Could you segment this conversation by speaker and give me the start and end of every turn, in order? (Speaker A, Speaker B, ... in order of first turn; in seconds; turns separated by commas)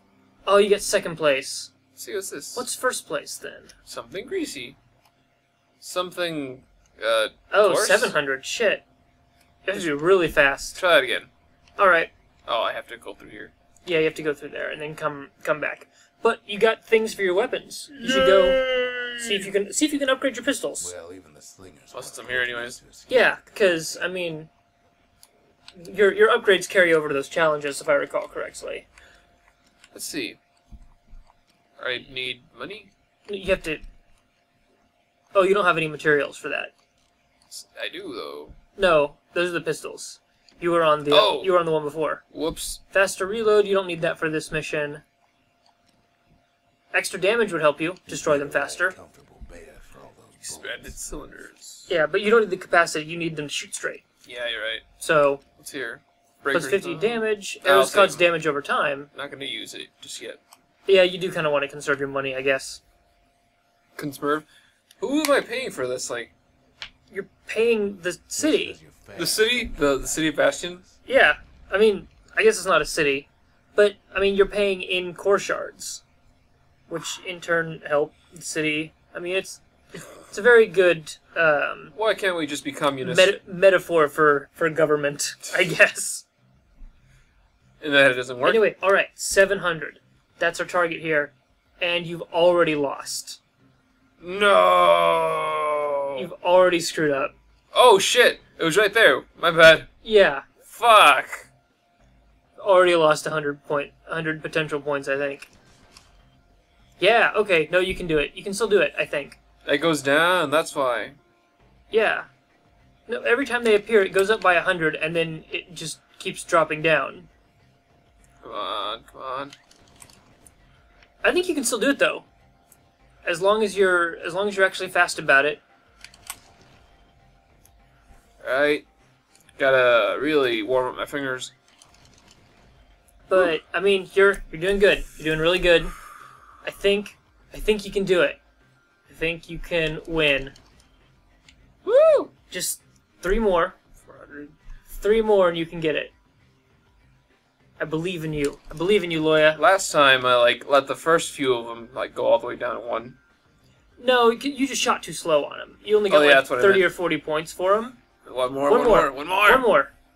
Speaker A: 0.5-1.7, Speaker B: 2.0-2.7, Speaker A: 2.5-3.7, Speaker B: 3.9-4.8, Speaker B: 5.8-8.1, Speaker A: 7.5-8.8, Speaker A: 9.7-10.8, Speaker B: 10.7-11.3, Speaker A: 11.8-12.1, Speaker B: 12.5-13.5, Speaker A: 13.8-20.9, Speaker B: 17.9-19.5, Speaker C: 20.8-24.1, Speaker B: 21.9-22.8, Speaker A: 23.1-24.5, Speaker A: 25.8-28.9, Speaker B: 29.9-30.4, Speaker B: 31.8-32.9, Speaker A: 33.3-33.8, Speaker A: 35.3-36.7, Speaker B: 37.5-38.5, Speaker A: 38.8-42.2, Speaker B: 41.1-41.5, Speaker B: 42.3-42.8, Speaker A: 42.9-45.0, Speaker A: 46.9-49.0, Speaker C: 48.0-51.0, Speaker B: 50.4-51.9, Speaker A: 51.9-54.0, Speaker B: 54.2-54.8, Speaker A: 55.0-55.4, Speaker B: 55.6-58.2, Speaker A: 56.5-59.1, Speaker B: 59.1-60.4, Speaker A: 60.9-62.8, Speaker B: 64.0-64.5, Speaker B: 65.0-66.3, Speaker A: 67.1-68.8, Speaker C: 68.4-71.0, Speaker B: 69.1-70.8, Speaker A: 71.0-76.0, Speaker A: 76.9-81.9, Speaker B: 81.9-83.3, Speaker A: 83.0-86.2, Speaker B: 87.8-88.6, Speaker A: 88.4-93.4, Speaker B: 94.2-96.3, Speaker A: 96.2-97.3, Speaker B: 97.7-99.9, Speaker A: 100.0-100.4, Speaker B: 100.6-101.5, Speaker A: 102.6-105.5, Speaker A: 107.0-109.4, Speaker B: 109.7-111.2, Speaker A: 111.9-112.3, Speaker A: 113.1-117.3, Speaker B: 118.4-119.5, Speaker A: 121.2-122.2, Speaker A: 123.2-125.6, Speaker B: 128.4-128.8, Speaker B: 129.6-131.5, Speaker A: 133.3-135.9, Speaker A: 136.6-138.4, Speaker A: 139.1-140.6, Speaker B: 141.8-142.3, Speaker A: 142.5-143.8, Speaker B: 144.0-144.5, Speaker A: 144.9-146.1, Speaker A: 147.8-149.6, Speaker B: 149.6-153.2, Speaker A: 154.0-158.0, Speaker B: 156.1-156.9, Speaker B: 158.2-159.7, Speaker A: 158.7-159.9